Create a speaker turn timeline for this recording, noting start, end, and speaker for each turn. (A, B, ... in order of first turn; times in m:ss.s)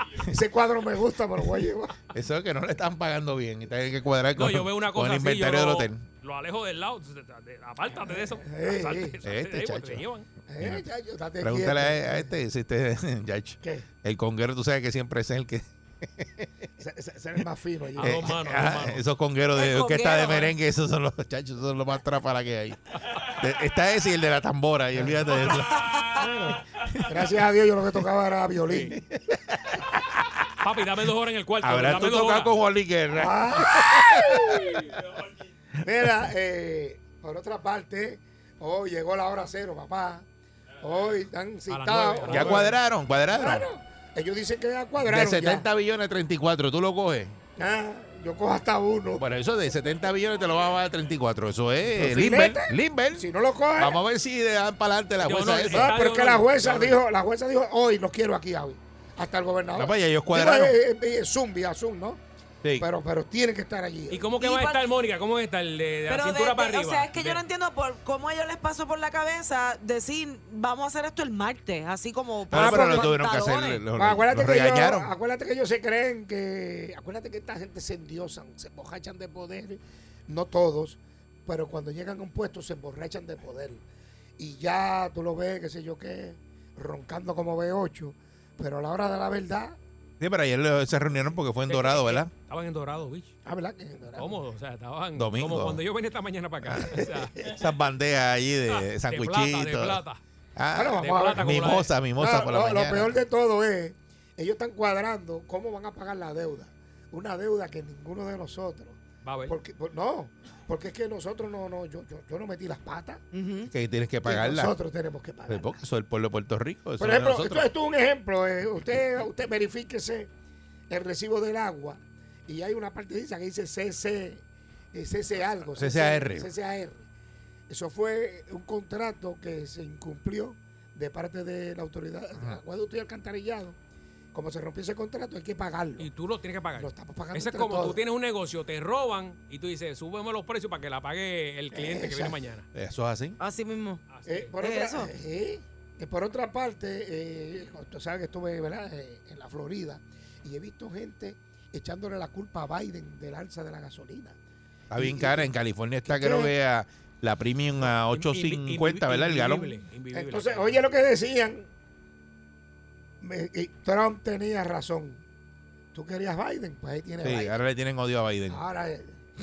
0:00.2-0:02.0 A
0:02.1-0:06.0 B
0:04.3-0:10.3 C
0:08.2-0:09.2 A
0:09.2-0:10.0 B
0:10.5-0:12.3 A
0:10.6-0:10.9 B
0:11.4-0:15.7 B
0:13.6-0:13.9 A
0:16.2-0:16.5 B
0:16.8-0:18.3 A
0:18.0-0:19.0 C
0:18.0-0:25.9 B
0:19.5-0:20.6 D
0:25.0-0:25.5 C
0:25.6-0:26.2 D
0:26.1-0:26.6 C
0:26.8-0:27.1 B
0:27.0-0:29.0 A
0:28.6-0:29.0 C
0:29.1-0:30.0 B
0:30.6-0:32.6 C
0:31.6-0:34.5 B
0:33.1-0:35.0 A
0:35.8-0:40.2 A
0:40.8-0:42.8 A
0:41.7-0:42.8 C
0:42.2-0:43.7 B
0:43.3-0:45.7 A
0:45.0-0:47.4 B
0:47.6-0:49.2 A
0:49.2-0:55.9 B
0:51.9-0:54.0 A
0:55.2-0:57.0 C
0:55.7-1:02.2 A
0:59.7-1:00.8 B
1:02.6-1:02.9 B
1:02.8-1:04.3 A
1:04.1-1:07.4 C
1:04.3-1:04.9 D
1:06.1-1:13.8 D
1:12.5-1:15.1 B
1:12.5-1:13.2 A
1:13.9-1:23.8 A
1:24.4-1:29.8 A
1:30.2-1:32.3 B
1:31.7-1:33.3 C
1:33.4-1:34.3 A
1:34.1-1:37.4 C
1:35.2-1:35.8 B
1:37.0-1:37.6 A
1:37.4-1:40.0 B
1:38.7-1:40.2 C
1:40.6-1:43.2 B
1:40.7-1:53.2 A
1:41.0-1:41.9 C
1:49.2-1:49.6 C
1:53.3-1:53.7 D
1:53.7-1:54.8 B
1:54.2-1:55.8 A
1:55.5-1:57.7 B
1:57.0-2:00.3 A
2:00.9-2:07.1 A
2:05.7-2:06.5 B
2:07.7-2:13.8 A
2:14.3-2:16.1 A
2:16.0-2:22.7 C
2:16.8-2:18.0 A
2:21.7-2:22.4 A
2:22.7-2:23.4 B
2:23.4-2:24.0 D
2:24.1-2:24.5 C
2:24.2-2:34.4 A
2:24.6-2:25.1 D
2:34.9-2:39.8 B
2:35.0-2:35.5 A
2:36.0-2:36.5 A
2:37.8-2:40.9 C
2:40.1-2:41.7 A
2:43.2-2:45.2 A
2:45.9-2:47.6 A
2:47.2-2:48.6 B
2:48.5-2:49.2 A